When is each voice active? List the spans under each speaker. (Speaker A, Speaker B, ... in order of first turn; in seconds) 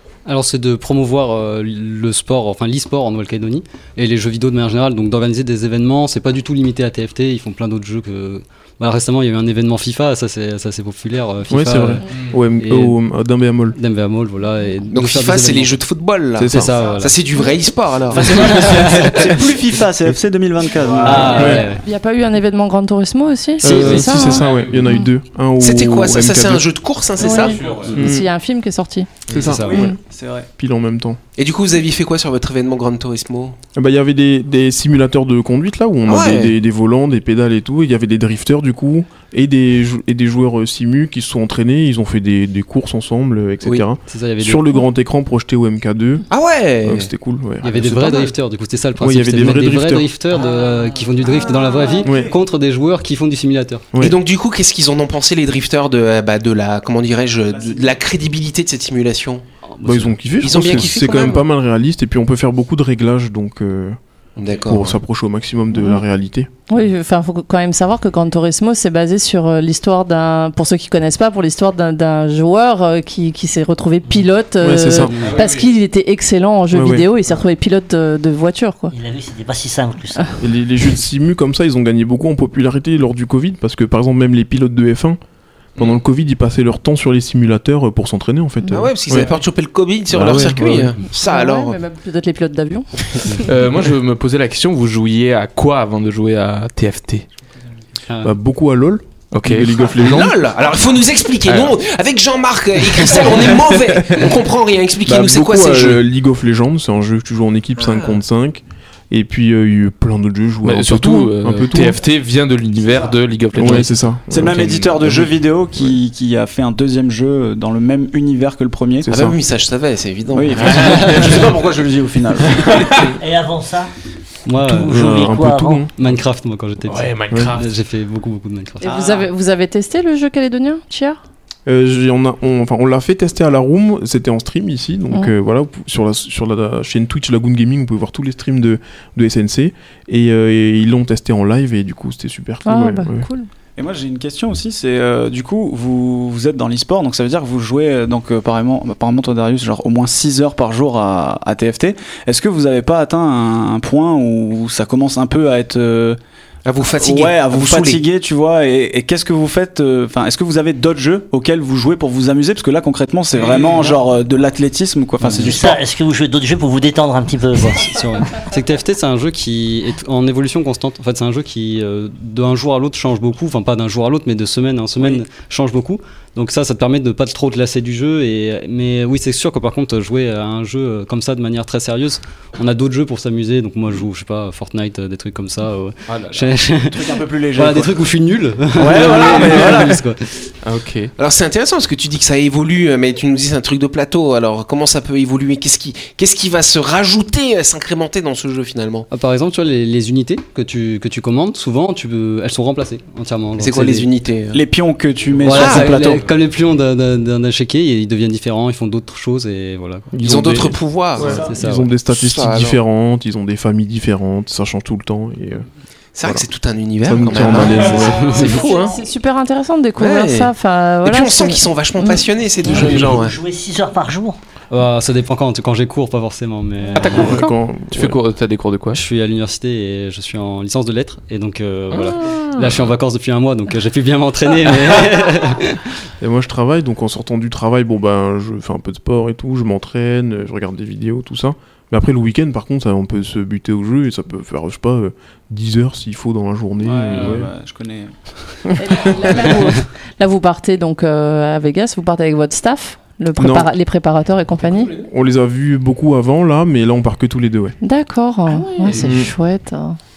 Speaker A: 0.2-12.0, 12.6-13.0, 13.8-15.7, 16.5-17.2, 18.1-19.3, 21.0-21.8, 29.3-29.9, 44.1-44.8, 47.6-53.9, 59.7-60.1, 98.1-98.3, 120.6-121.4, 124.5-125.1, 126.0-129.0, 165.2-165.6, 167.6-190.3, 199.1-204.1, 205.4-210.1, 211.3-211.9, 217.5-218.7, 224.7-227.3, 228.9-235.8
Speaker B: 11.5-13.8, 16.4-16.8, 21.3-21.6, 23.6-26.6, 27.9-28.3, 29.3-30.0, 30.6-31.2, 33.8-46.2, 46.8-48.3, 49.0-50.1, 52.0-52.3, 53.9-54.2, 59.8-64.0, 64.7-66.5, 74.6-75.1, 76.7-77.1, 80.4-85.2, 85.8-89.3, 90.1-91.0, 98.2-100.4, 105.1-112.0, 113.5-115.9, 119.0-119.4, 124.6-125.9, 131.7-143.3, 210.1-215.7, 217.0-218.3, 227.1-228.2, 236.2-247.5, 248.7-249.1, 253.4-253.7, 255.0-257.8, 258.9-259.3
Speaker C: 14.9-18.7, 25.6-27.6, 31.4-33.6, 36.1-36.5, 46.3-47.1, 54.0-59.4, 60.4-61.4, 64.4-65.0, 88.7-91.8, 99.9-106.0, 107.8-108.2, 119.1-121.1, 156.7-158.0, 191.2-199.1, 203.6-204.6, 205.5-206.1, 210.2-211.5, 212.1-212.8, 216.2-219.0, 220.0-220.5, 221.0-223.4
Speaker D: 18.1-21.6, 27.6-27.9, 29.5-30.5, 51.2-52.4, 57.5-58.0, 114.3-119.1, 120.3-122.9, 128.8-129.3, 143.8-156.2, 157.0-165.8, 186.9-188.1, 188.7-190.0, 204.5-206.3, 211.2-211.5, 246.8-249.0
Speaker E: 21.0-21.3, 23.7-24.9, 27.4-27.9, 75.1-75.6, 93.4-97.3, 99.3-99.7, 101.5-101.7, 110.6-113.9, 114.5-115.2, 126.8-127.8, 186.1-186.6, 189.3-189.9, 190.6-191.1, 222.7-223.2, 226.9-229.0, 231.9-232.9, 247.1-247.4
Speaker F: 21.6-25.1, 27.2-29.2, 65.8-66.0, 66.7-79.0, 91.1-92.9, 128.8-131.2, 142.7-143.5, 218.2-223.0, 248.8-255.0, 257.8-260.0
Speaker G: 78.9-80.4, 123.1-123.9, 124.8-125.9, 165.4-167.9, 222.7-224.4